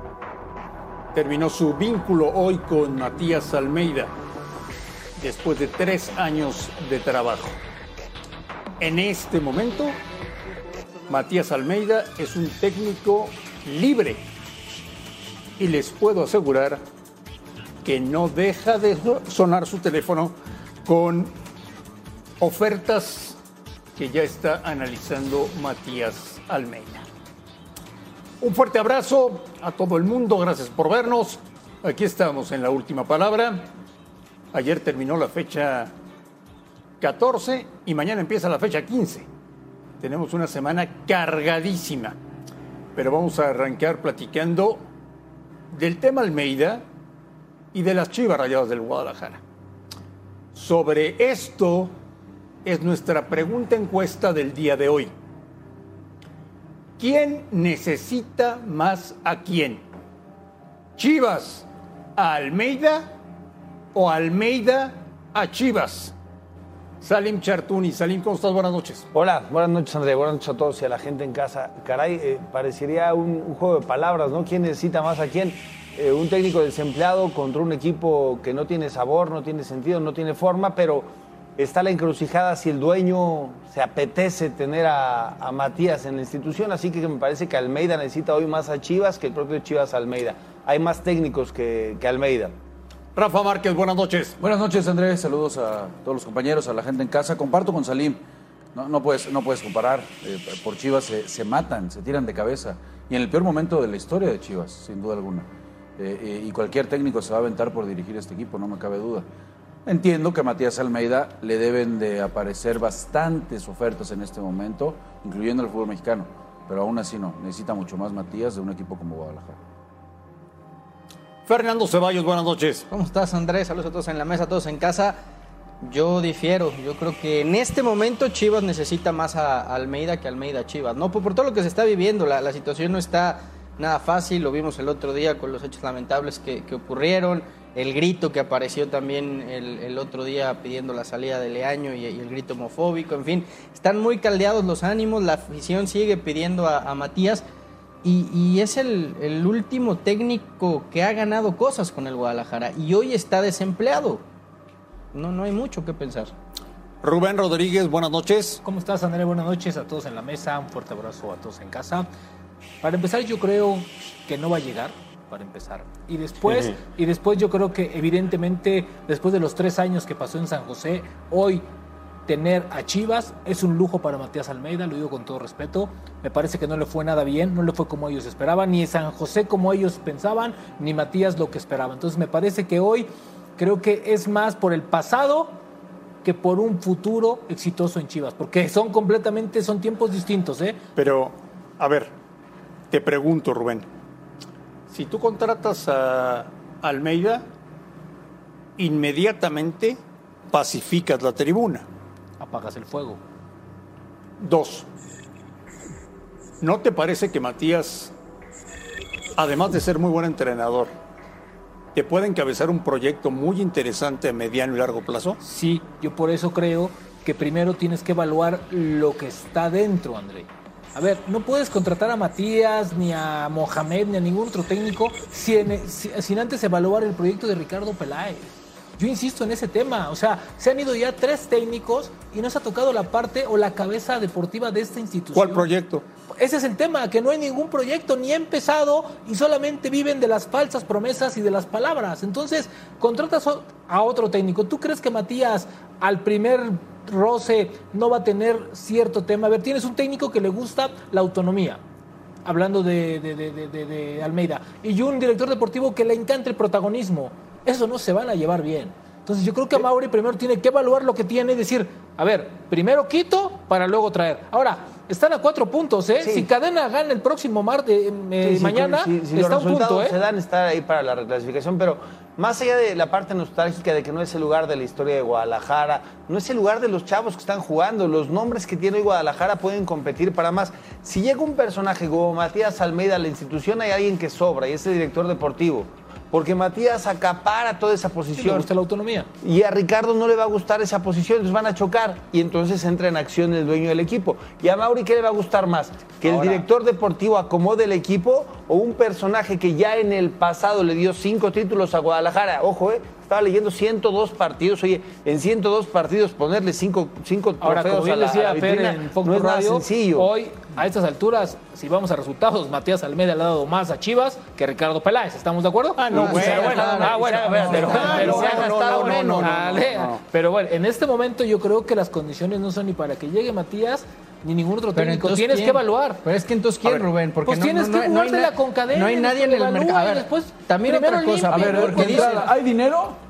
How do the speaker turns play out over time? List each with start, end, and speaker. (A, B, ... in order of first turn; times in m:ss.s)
0:01.1-0:04.1 A
0:05.2-0:07.6 A
0:08.8-0:10.0 A
0:11.1-0:14.2 A
0:15.6-0:16.8 A
0:17.8-0:21.3 A
0:22.4-0:23.4 A
0:24.0-0:27.0 A
0:28.4-0:33.7 A
0:34.5-0:35.9 A
0:37.0-0:39.3 A
0:40.0-0:42.2 A
0:43.0-0:44.8 A
0:45.7-0:46.8 A
0:47.7-0:49.4 A
0:50.5-0:51.9 A
0:52.6-0:55.1 A
0:57.0-0:59.8 A
1:01.0-1:03.1 A
1:03.9-1:06.1 A
1:07.0-1:09.1 A
1:09.1-1:32.5 B
1:33.2-1:34.4 A
1:34.4-1:38.2 C
1:38.7-1:49.3 C
1:49.9-1:59.6 C
2:01.5-2:02.9 A
2:02.9-2:05.2 D
2:05.8-2:27.4 D
2:28.0-2:34.2 D
2:35.1-2:36.3 D
2:37.0-2:38.6 A
2:38.6-2:42.1 E
2:42.8-2:51.6 E
2:52.3-3:05.6 E
3:06.2-3:10.8 E
3:11.0-3:12.1 A
3:12.9-3:13.9 A
3:14.9-3:17.5 A
3:18.8-3:20.0 A
3:20.5-3:21.9 A
3:22.4-3:23.2 E
3:24.4-3:24.9 A
3:26.6-3:28.1 A
3:29.4-3:30.9 A
3:32.0-3:35.4 A
3:35.4-3:55.7 E
3:55.3-3:56.0 A
3:56.3-4:11.8 E
4:12.4-4:30.2 E
4:26.2-4:26.5 B
4:28.4-4:48.7 B
4:48.4-4:49.3 E
4:49.4-5:10.3 B
4:56.3-4:56.6 E
5:07.6-5:26.2 E
5:16.0-5:20.2 A
5:16.1-5:19.6 D
5:16.2-5:19.4 B
5:25.0-5:32.5 D
5:27.4-5:32.5 E
5:31.5-5:33.2 C